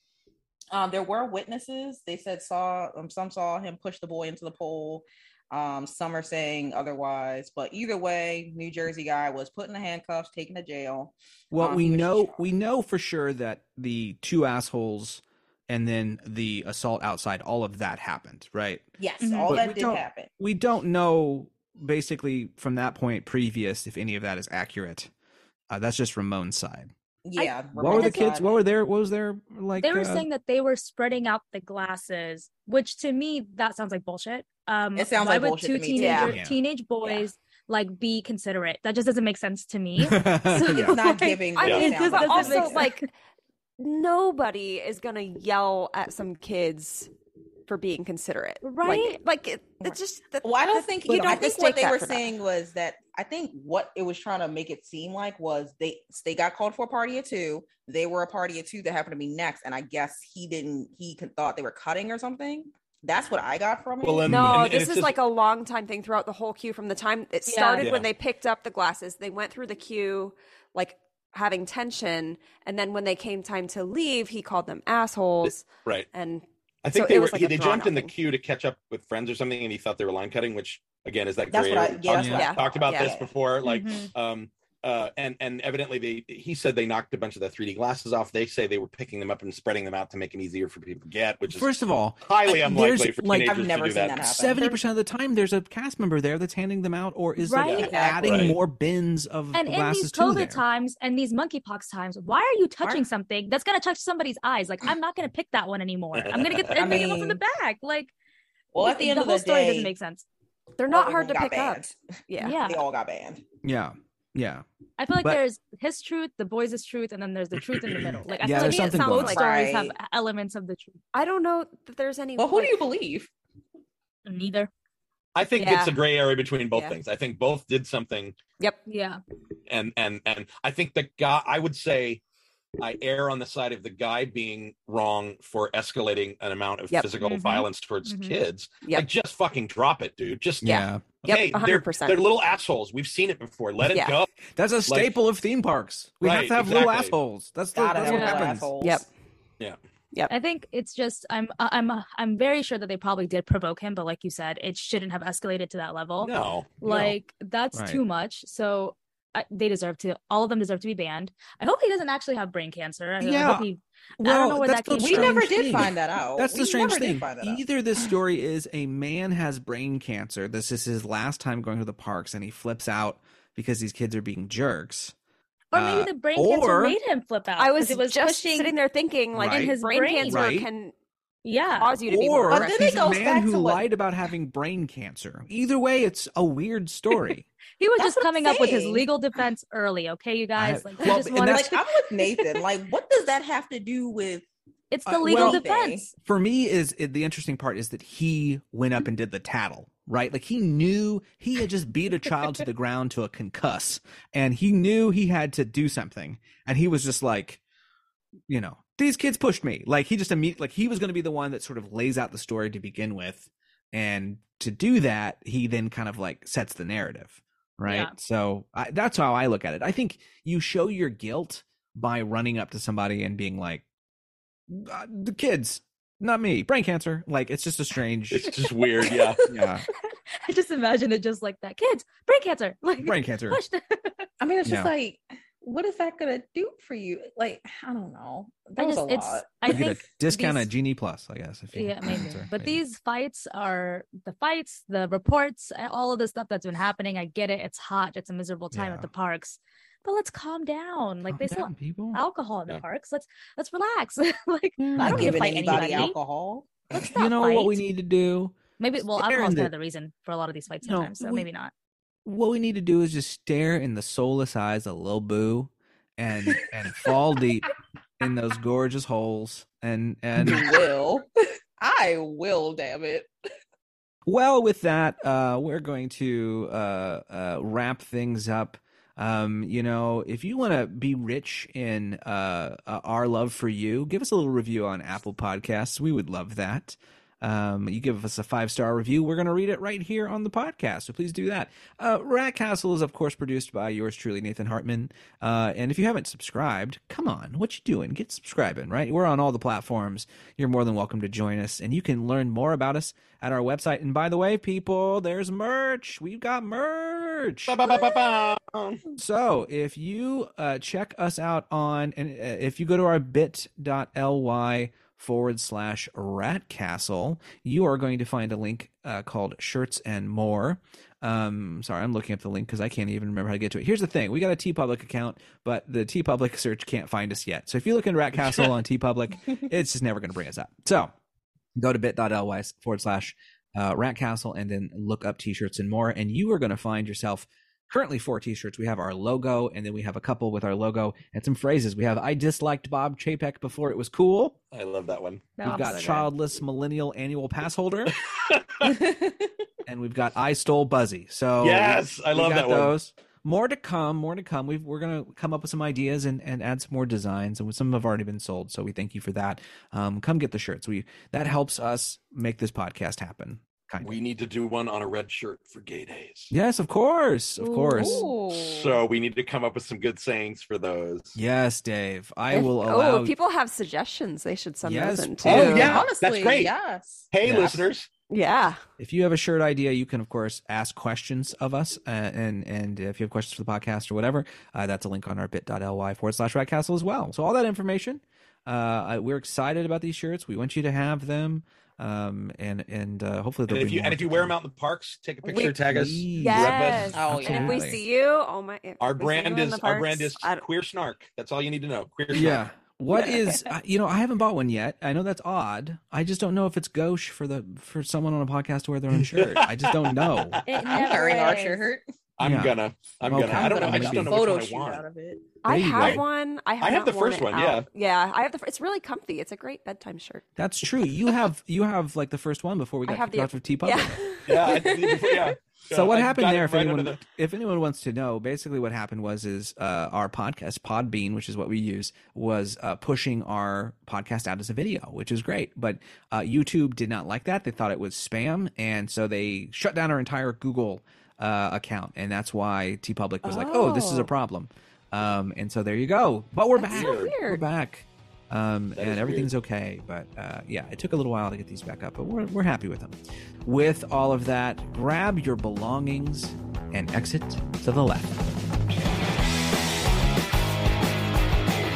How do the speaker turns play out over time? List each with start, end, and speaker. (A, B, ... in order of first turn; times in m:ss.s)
0:00.7-0:12.4 A
0:11.5-0:18.9 B
0:19.0-0:20.3 A
0:19.2-0:19.6 C
0:19.5-0:25.1 B
0:25.7-0:26.9 B
0:27.2-0:28.5 A
0:27.4-0:28.3 C
0:27.7-0:30.3 B
0:29.8-0:43.1 C
0:35.0-0:36.4 A
0:35.9-0:36.3 D
0:36.1-0:36.6 B
0:40.0-0:41.0 B
0:40.6-0:42.9 A
0:41.5-0:43.1 D
0:41.6-0:41.9 E
0:43.8-0:47.1 D
0:47.7-0:52.3 D
0:48.6-0:49.2 C
0:49.8-1:04.5 A
1:04.0-1:05.1 E
1:04.2-1:18.1 D
1:07.5-1:07.9 C
1:07.8-1:08.1 E
1:15.4-1:16.1 E
1:16.8-1:34.3 E
1:21.5-1:23.3 A
1:22.1-1:22.4 B
1:22.4-1:23.1 D
1:23.6-1:24.1 C
1:31.5-1:33.6 B
1:33.4-1:34.8 A
1:34.2-1:40.6 B
1:37.4-1:38.1 C
1:37.6-1:38.6 E
1:37.8-1:38.6 A
1:39.5-1:48.1 C
1:46.2-1:46.9 E
1:46.7-1:47.4 A
1:48.7-1:49.9 A
1:48.8-1:50.2 C
1:50.8-1:52.6 D
1:50.9-1:53.4 A
1:52.4-1:52.8 C
1:53.6-1:54.6 B
1:55.0-2:01.0 C
1:58.4-1:59.4 B
1:58.4-1:59.5 D
1:59.3-1:59.9 A
2:01.1-2:02.8 D
2:02.4-2:03.3 A
2:04.2-2:04.7 C
2:05.3-2:08.4 E
2:05.6-2:06.0 D
2:06.7-2:07.0 D
2:08.9-2:09.2 C
2:09.7-2:12.2 E
2:12.8-2:24.3 E
2:17.2-2:18.4 C
2:20.6-2:21.0 B
2:20.6-2:22.2 D
2:23.9-2:24.2 D
2:24.5-2:28.7 B
2:24.9-2:25.1 E
2:26.2-2:27.1 E
2:27.7-2:29.0 A
2:28.1-2:29.1 D
2:30.3-2:45.6 C
2:36.2-2:37.1 E
2:37.7-2:38.0 B
2:43.2-2:43.6 B
2:44.2-2:55.1 B
2:45.0-2:47.6 A
2:55.7-2:58.7 C
2:55.7-2:57.0 B
2:57.6-3:00.9 D
2:59.3-3:00.7 B
2:59.4-3:00.5 C
3:01.4-3:01.9 C
3:01.8-3:03.1 D
3:02.1-3:07.5 B
3:02.5-3:03.8 A
3:07.8-3:11.8 C
3:08.0-3:09.1 A
3:10.6-3:11.8 B
3:11.3-3:14.4 A
3:14.9-3:16.1 C
3:15.0-3:15.6 B
3:15.2-3:16.1 A
3:16.2-3:27.6 B
3:28.5-3:43.8 B
3:37.8-3:38.1 C
3:44.7-3:48.5 B
3:48.3-3:49.4 E
3:49.0-3:54.3 C
3:49.5-3:49.8 B
3:53.0-3:53.6 B
3:54.4-3:59.9 A
3:54.6-3:54.9 B
3:58.8-4:00.7 C
3:59.6-4:02.8 B
4:01.7-4:16.2 C
4:08.7-4:09.1 B
4:11.3-4:12.2 B
4:14.8-4:16.1 B
4:15.0-4:17.2 A
4:17.1-4:17.8 C
4:17.1-4:18.6 B
4:18.8-4:21.7 C
4:19.1-4:19.7 B
4:20.8-4:21.5 B
4:22.2-4:30.7 B
4:30.4-4:31.3 A
4:31.8-4:33.3 A
4:34.3-5:07.8 B
5:07.7-5:09.1 E
5:09.2-5:31.1 B
5:31.8-5:44.6 B
5:44.7-5:46.2 E
5:45.6-5:46.2 C
5:45.6-5:48.1 B
5:48.1-5:49.0 E
5:48.8-5:49.5 A
5:49.8-6:04.2 B
5:51.6-5:52.9 E
6:04.0-6:06.5 E
6:06.5-6:08.3 B
6:07.6-6:08.2 C
6:08.0-6:09.0 A
6:08.5-6:11.4 E
6:11.3-6:13.3 B
6:12.5-6:16.1 D
6:14.8-6:16.0 B
6:15.4-6:16.7 E
6:15.5-6:17.3 A
6:17.3-6:18.1 E
6:17.4-6:17.9 B
6:18.3-6:18.8 D
6:19.0-6:34.5 B
6:33.7-6:37.2 E
6:35.4-6:35.8 D
6:35.8-6:38.0 B
6:36.4-6:40.6 D
6:36.6-6:37.0 C
6:37.1-6:37.8 A
6:39.0-6:42.6 E
6:42.3-6:50.6 B
6:49.3-6:51.0 E
6:50.7-6:51.8 C
6:50.9-6:52.0 A
6:52.4-6:55.0 E
6:52.4-6:54.4 B
6:53.4-6:55.4 A
6:55.6-7:00.4 D
6:55.7-6:56.2 B
6:55.9-6:56.2 E
6:56.8-6:57.8 E
7:00.6-7:04.2 B
7:03.0-7:04.9 D
7:04.4-7:07.2 E
7:04.6-7:05.5 A
7:05.9-7:39.0 B
7:23.4-7:24.3 D
7:26.8-7:27.6 D
7:26.9-7:27.4 E
7:29.0-7:29.5 E